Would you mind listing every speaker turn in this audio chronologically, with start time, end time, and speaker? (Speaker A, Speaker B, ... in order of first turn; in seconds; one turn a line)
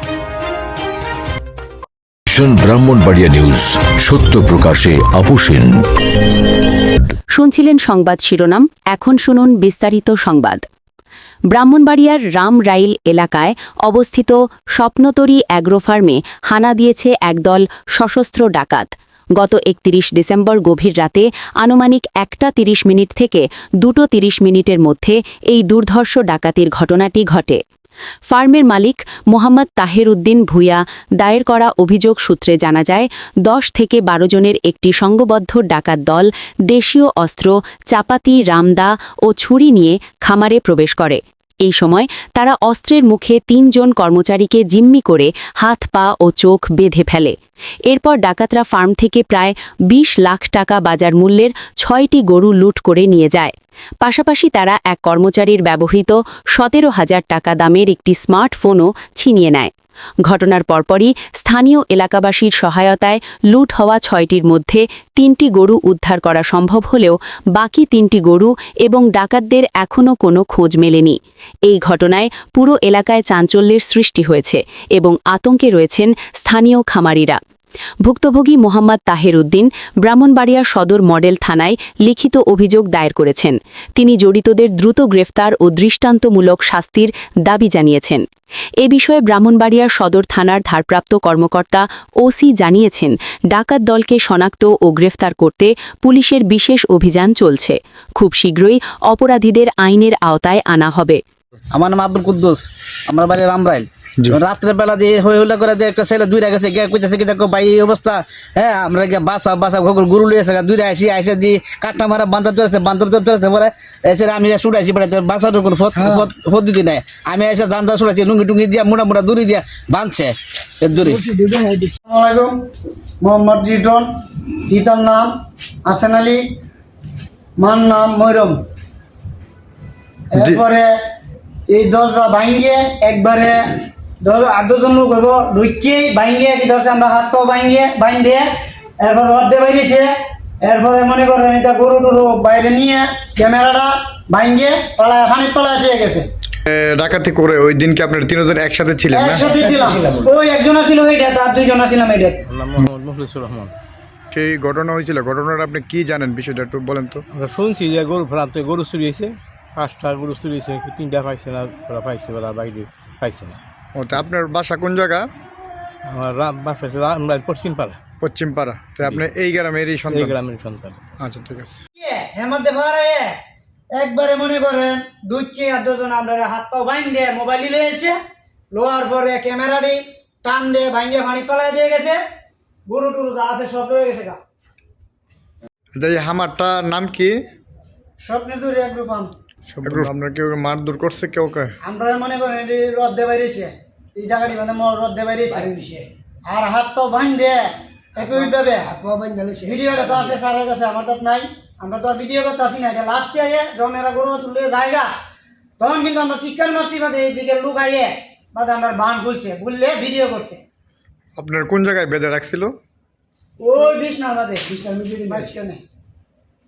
Speaker A: 2.3-5.7
Speaker B: 7.3-10.6
Speaker B: 11.5-27.6
Speaker B: 28.3-47.4
Speaker B: 47.9-59.7
Speaker B: 60.3-77.4
Speaker B: 78.0-88.2
Speaker B: 88.8-101.2
Speaker C: 101.7-121.3
Speaker D: 122.1-122.5
Speaker D: 123.2-124.1
Speaker D: 124.7-125.3
Speaker D: 125.9-126.4
Speaker D: 127.6-128.6
Speaker D: 130.3-130.9
Speaker D: 131.7-138.5
Speaker D: 139.0-140.1
Speaker D: 140.6-146.3
Speaker E: 146.7-149.4
Speaker D: 149.1-152.4
Speaker F: 152.5-153.7
Speaker E: 154.3-157.2
Speaker F: 157.3-163.6
Speaker E: 163.9-165.3
Speaker F: 166.1-168.0
Speaker E: 168.2-170.3
Speaker F: 169.0-169.3
Speaker F: 170.1-171.0
Speaker E: 171.2-171.8
Speaker D: 172.0-173.3
Speaker D: 173.9-178.2
Speaker D: 178.7-182.2
Speaker D: 182.9-184.4
Speaker E: 185.9-187.4
Speaker D: 188.2-189.3
Speaker E: 189.7-191.7
Speaker D: 191.8-195.9
Speaker D: 196.4-197.6
Speaker D: 198.2-205.1
Speaker D: 205.8-210.6
Speaker E: 211.4-212.8
Speaker D: 213.6-215.8